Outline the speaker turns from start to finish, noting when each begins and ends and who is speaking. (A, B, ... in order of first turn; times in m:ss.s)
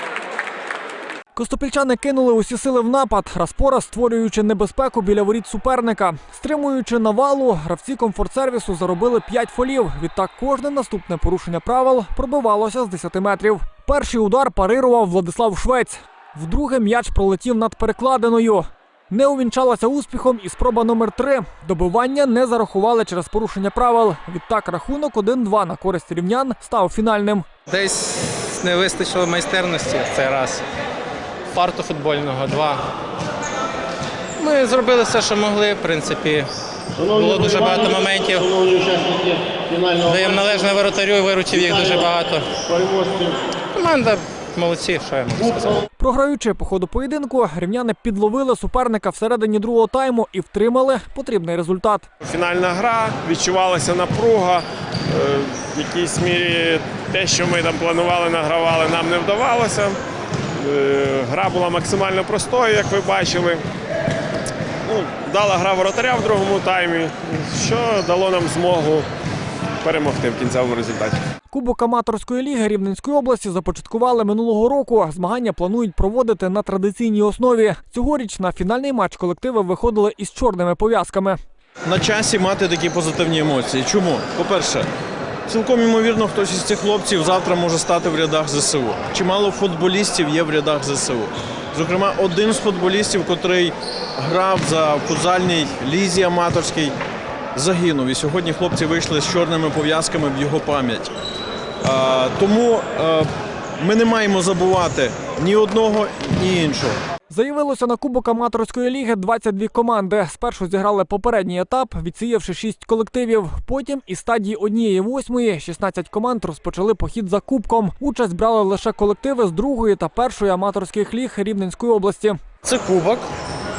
0:01.4-0:27.5 A
0:27.7-0:30.6 B
0:31.5-0:32.8 B
0:34.4-0:36.5 B
0:37.0-0:40.6 C
0:37.0-0:38.5 B
0:40.0-0:42.5 B
0:41.5-0:42.0 C
0:42.6-0:43.4 C
0:43.8-0:45.8 B
0:46.0-0:52.1 A
0:52.2-1:00.0 D
1:00.6-1:03.6 D
1:04.8-1:09.1 D
1:09.8-1:11.2 D
1:11.5-1:21.4 A
1:21.9-1:24.9 E
1:25.5-1:37.0 E
1:37.6-1:41.1 E
1:41.8-1:43.3 E
1:43.8-1:47.0 E
1:47.3-2:02.4 A
2:02.6-2:03.3 C